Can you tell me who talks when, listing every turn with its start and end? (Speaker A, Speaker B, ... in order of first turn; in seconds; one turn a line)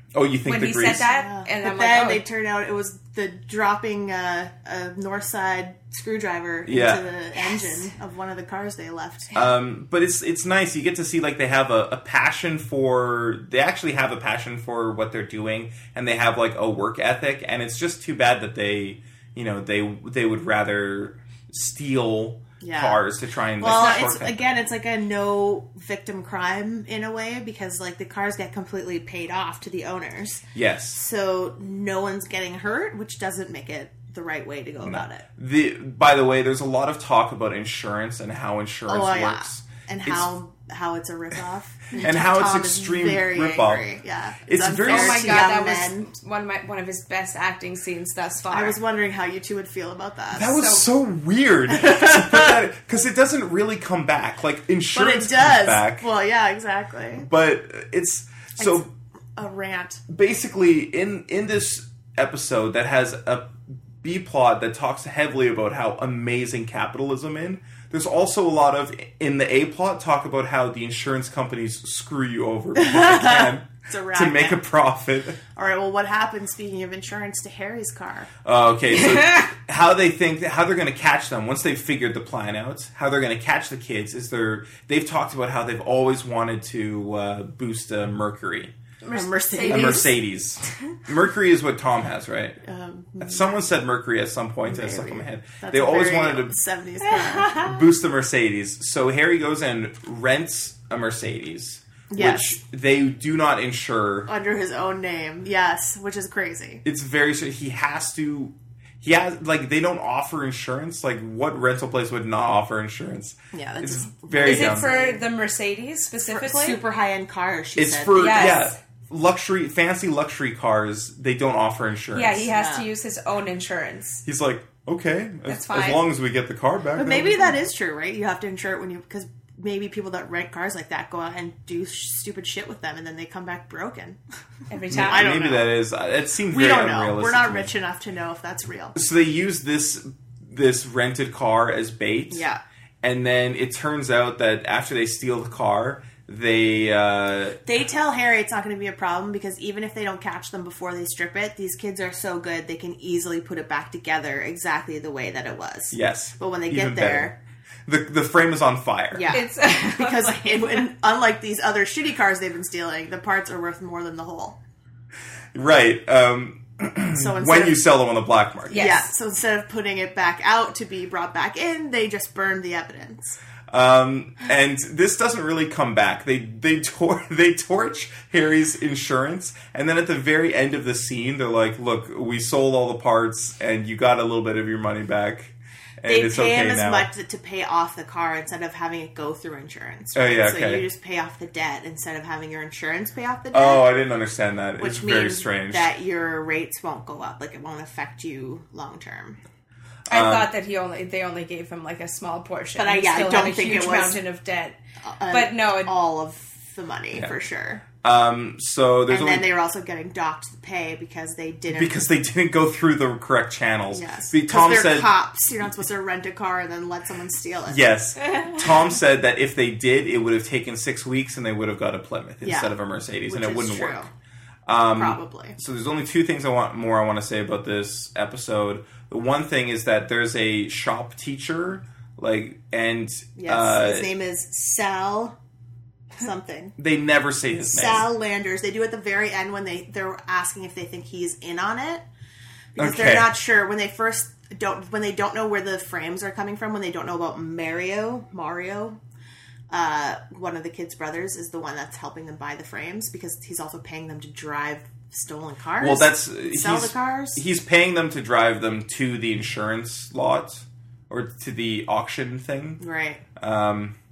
Speaker A: 0.1-1.1
Speaker B: 0.5-2.2
Speaker C: 1.0-9.3
Speaker A: 6.7-7.0
Speaker B: 7.4-7.9
Speaker A: 9.3-24.5
Speaker C: 22.6-23.0
Speaker C: 23.6-30.4
Speaker A: 30.6-31.0
Speaker C: 30.9-35.2
Speaker A: 34.8-40.3
Speaker C: 38.9-46.1
Speaker A: 42.0-43.9
Speaker A: 44.5-45.5
Speaker B: 44.9-48.8
Speaker C: 48.5-50.6
Speaker A: 50.3-56.1
Speaker B: 50.6-50.9
Speaker C: 51.7-52.6
Speaker C: 54.9-57.3
Speaker A: 57.2-58.9
Speaker C: 58.6-60.0
Speaker A: 60.1-75.4
Speaker C: 72.8-74.6
Speaker C: 75.5-78.3
Speaker A: 78.5-88.7
Speaker B: 79.2-79.4
Speaker B: 89.0-90.1
Speaker C: 89.1-90.1
Speaker A: 89.7-92.6
Speaker C: 92.6-93.6
Speaker A: 93.2-96.6
Speaker C: 94.7-97.6
Speaker A: 97.6-104.3
Speaker C: 102.1-102.6
Speaker C: 104.3-106.8
Speaker A: 106.8-114.9
Speaker C: 113.5-115.2
Speaker B: 114.4-116.8
Speaker C: 116.3-118.7
Speaker A: 117.8-122.5
Speaker B: 118.2-118.8
Speaker B: 122.1-124.2
Speaker C: 122.5-122.9
Speaker A: 124.3-127.6
Speaker B: 125.5-126.0
Speaker C: 127.0-134.2
Speaker B: 134.7-135.3
Speaker A: 134.9-137.7
Speaker C: 135.0-135.7
Speaker C: 136.5-139.0
Speaker A: 138.9-142.5
Speaker C: 142.3-142.6
Speaker A: 143.0-147.6
Speaker C: 147.7-157.4
Speaker A: 155.9-157.3
Speaker A: 157.9-159.3
Speaker C: 159.1-164.6
Speaker B: 159.3-160.9
Speaker A: 165.5-168.8
Speaker C: 167.2-167.8
Speaker B: 168.7-169.1
Speaker C: 168.7-173.4
Speaker A: 173.7-187.1
Speaker C: 186.1-193.9
Speaker A: 190.2-190.8
Speaker A: 193.5-195.9
Speaker C: 194.8-199.4
Speaker A: 200.1-200.5
Speaker B: 200.1-204.8
Speaker C: 202.8-204.2
Speaker C: 205.0-207.8
Speaker B: 205.3-205.9
Speaker A: 208.0-209.5
Speaker C: 209.1-212.0
Speaker A: 211.7-215.1
Speaker C: 213.9-217.8
Speaker A: 217.7-224.1
Speaker C: 222.4-224.1
Speaker A: 224.7-234.1
Speaker C: 224.9-225.6
Speaker C: 233.4-235.3
Speaker C: 236.2-236.8
Speaker A: 236.8-238.1
Speaker C: 237.6-242.1
Speaker C: 242.8-249.0
Speaker A: 242.8-243.3
Speaker C: 249.7-257.4
Speaker A: 255.8-262.8
Speaker C: 262.8-263.2
Speaker A: 263.4-264.0